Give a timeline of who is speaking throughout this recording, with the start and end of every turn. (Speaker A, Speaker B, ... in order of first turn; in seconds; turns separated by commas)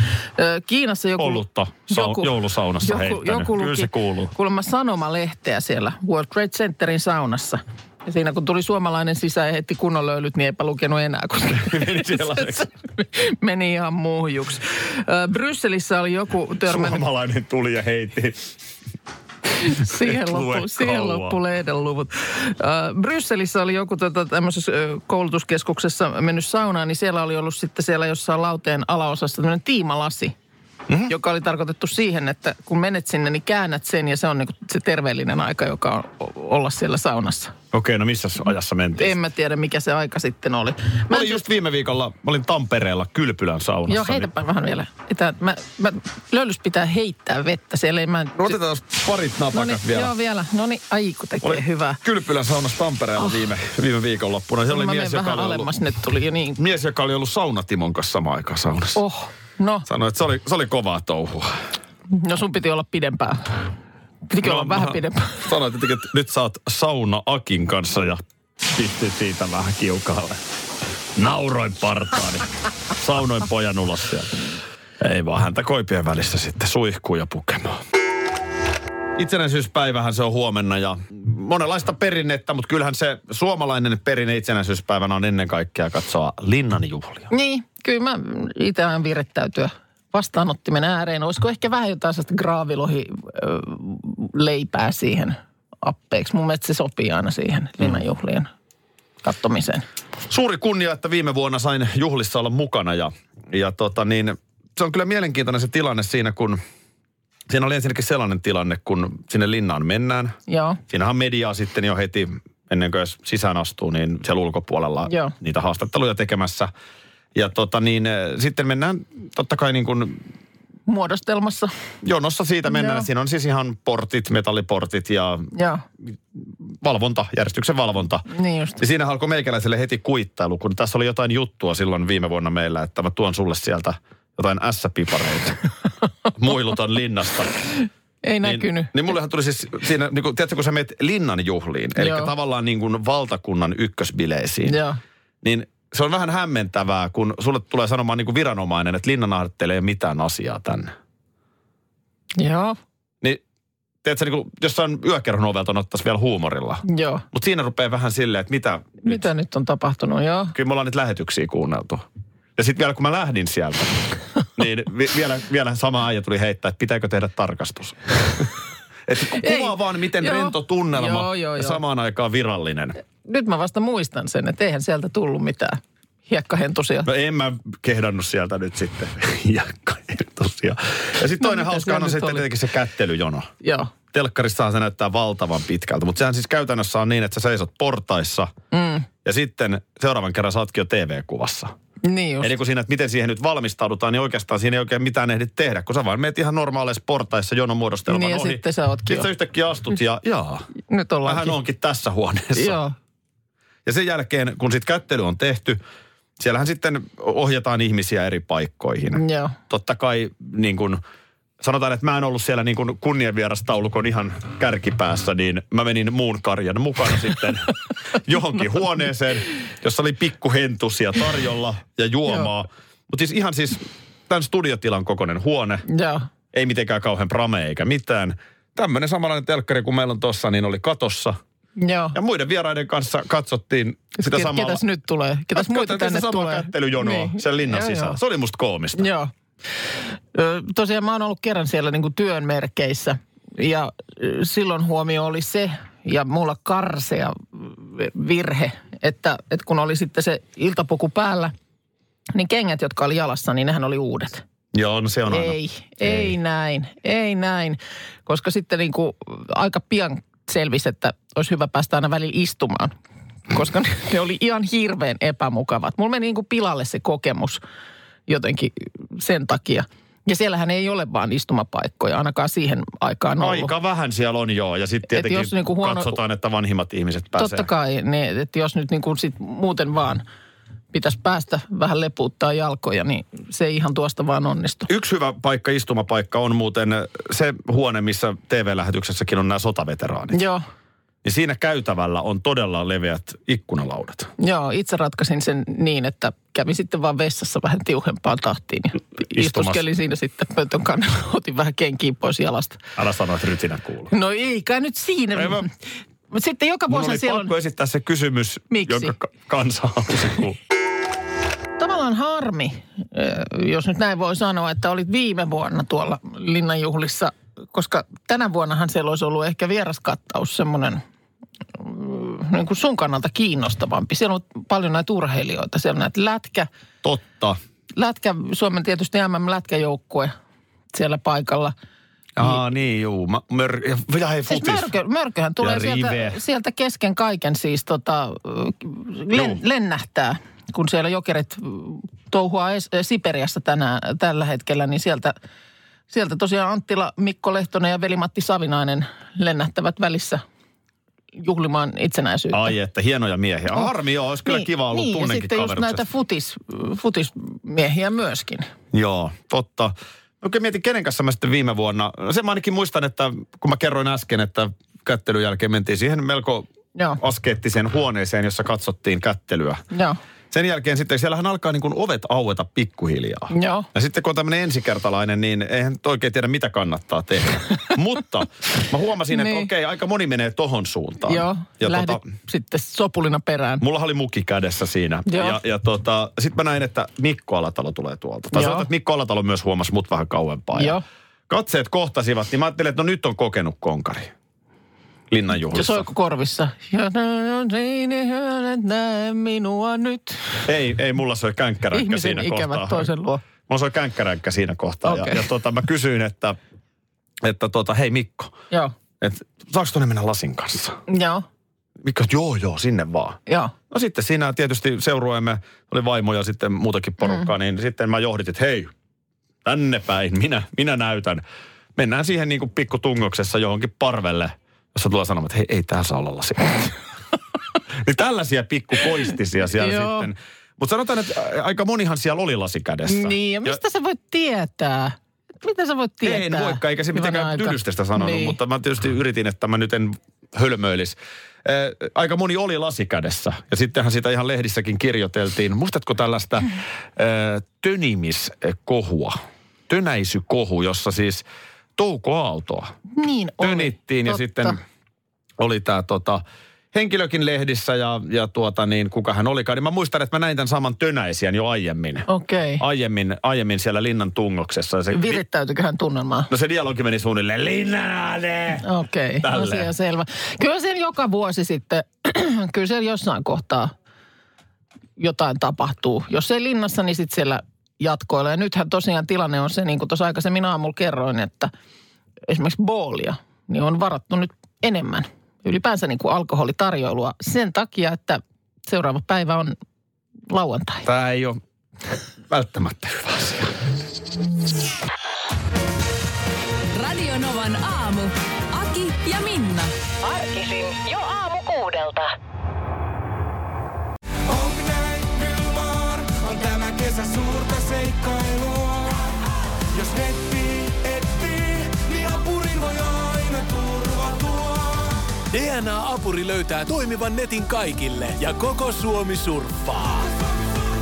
Speaker A: 0.3-17.0, Speaker B: 1.2-4.3, Speaker B: 11.5-12.7, Speaker B: 16.6-18.5, Speaker A: 19.6-30.3, Speaker B: 19.8-21.4, Speaker A: 31.1-37.5, Speaker B: 37.7-39.1, Speaker A: 39.0-41.4, Speaker B: 41.1-44.3, Speaker A: 43.9-48.6, Speaker B: 48.4-50.1, Speaker A: 49.5-52.0, Speaker B: 51.4-55.7, Speaker A: 54.7-56.6, Speaker B: 56.6-59.0, Speaker A: 58.9-59.9, Speaker B: 59.9-61.6, Speaker A: 62.1-63.5, Speaker A: 64.3-65.5, Speaker B: 64.4-70.4, Speaker B: 71.2-74.4, Speaker B: 75.0-77.8, Speaker B: 79.2-87.3, Speaker A: 87.3-98.5, Speaker A: 99.2-99.8, Speaker B: 100.3-106.6, Speaker B: 107.5-110.3, Speaker A: 110.5-110.8, Speaker B: 110.9-116.7, Speaker A: 115.0-115.3, Speaker B: 117.3-120.2, Speaker A: 120.9-121.7, Speaker B: 122.0-125.5, Speaker A: 122.7-123.1, Speaker A: 125.5-125.8, Speaker B: 126.0-128.2, Speaker A: 128.3-128.8, Speaker B: 128.8-135.6, Speaker B: 136.3-137.6, Speaker A: 138.2-139.1, Speaker B: 138.4-144.8, Speaker A: 142.0-142.3, Speaker A: 144.7-145.0, Speaker B: 145.4-150.9, Speaker A: 152.4-152.8, Speaker B: 154.0-159.2, Speaker A: 156.8-157.2, Speaker A: 159.0-160.5, Speaker B: 160.5-162.0, Speaker B: 162.6-168.5, Speaker B: 169.1-173.0, Speaker A: 169.3-171.8, Speaker A: 173.2-177.1, Speaker B: 177.0-183.5, Speaker A: 181.4-182.5, Speaker A: 183.6-183.9, Speaker B: 184.1-188.5, Speaker A: 188.7-189.1, Speaker B: 189.2-191.7, Speaker A: 192.0-192.5, Speaker B: 192.4-200.7, Speaker A: 198.1-199.3, Speaker A: 200.9-201.6, Speaker B: 201.2-202.8, Speaker A: 202.5-202.9, Speaker B: 203.8-205.8, Speaker B: 206.4-211.0, Speaker A: 209.1-209.6, Speaker B: 211.6-225.8, Speaker A: 225.9-226.3, Speaker B: 226.5-231.4, Speaker A: 231.8-232.2, Speaker B: 232.1-234.8, Speaker A: 234.2-238.2, Speaker B: 235.5-239.1, Speaker A: 238.9-239.3, Speaker A: 240.3-251.5, Speaker A: 252.3-254.4, Speaker B: 254.7-256.3, Speaker A: 255.3-262.9, Speaker A: 263.5-267.6, Speaker A: 268.3-273.7, Speaker B: 273.4-277.7, Speaker A: 275.1-276.2, Speaker A: 277.4-280.2, Speaker A: 280.9-284.9, Speaker B: 284.9-290.4, Speaker A: 290.3-290.6, Speaker B: 291.2-294.3, Speaker A: 294.4-302.8, Speaker B: 299.2-299.9, Speaker B: 302.9-304.1, Speaker A: 304.1-305.7, Speaker B: 305.3-305.7, Speaker A: 306.3-307.5, Speaker B: 306.9-310.6, Speaker A: 308.7-309.1, Speaker A: 311.8-321.0, Speaker A: 321.7-326.7, Speaker B: 327.0-327.6, Speaker A: 327.9-330.3, Speaker A: 330.9-331.7, Speaker B: 332.4-334.9, Speaker A: 334.5-345.3, Speaker B: 335.6-336.4, Speaker B: 339.3-339.6, Speaker A: 346.1-350.4, Speaker A: 351.4-352.7, Speaker B: 352.5-356.0, Speaker A: 354.4-358.7, Speaker B: 358.9-366.7, Speaker B: 367.2-369.8, Speaker A: 369.9-370.2, Speaker B: 370.5-382.2, Speaker A: 373.5-373.9, Speaker A: 379.3-379.7, Speaker A: 381.2-383.8, Speaker B: 383.8-391.0, Speaker A: 385.3-385.6, Speaker A: 388.5-388.9, Speaker A: 390.7-391.0, Speaker B: 391.5-394.3, Speaker B: 395.3-396.1, Speaker A: 395.7-400.6, Speaker B: 400.6-403.1, Speaker A: 401.9-403.4, Speaker B: 403.7-406.6, Speaker A: 405.0-405.5, Speaker B: 407.4-408.5, Speaker B: 409.2-411.0, Speaker A: 411.1-411.4, Speaker B: 412.0-418.9, Speaker A: 413.5-413.7, Speaker B: 419.6-421.4, Speaker B: 421.9-426.9, Speaker B: 427.9-433.8, Speaker A: 429.8-430.3, Speaker A: 433.1-438.6, Speaker B: 436.2-449.4, Speaker B: 449.9-451.4, Speaker B: 452.0-452.9, Speaker A: 453.1-454.8, Speaker B: 453.6-454.8, Speaker B: 455.6-456.4, Speaker B: 456.9-462.3, Speaker A: 462.3-462.8, Speaker B: 462.8-465.4, Speaker A: 465.1-466.5, Speaker B: 466.5-468.9, Speaker A: 468.8-473.9, Speaker B: 469.4-469.9, Speaker A: 475.2-481.7, Speaker A: 482.5-489.7, Speaker A: 490.5-491.1, Speaker B: 491.0-491.6, Speaker B: 492.5-493.8, Speaker C: 496.9-499.9, Speaker D: 500.2-502.3, Speaker E: 504.5-509.2, Speaker E: 509.9-520.4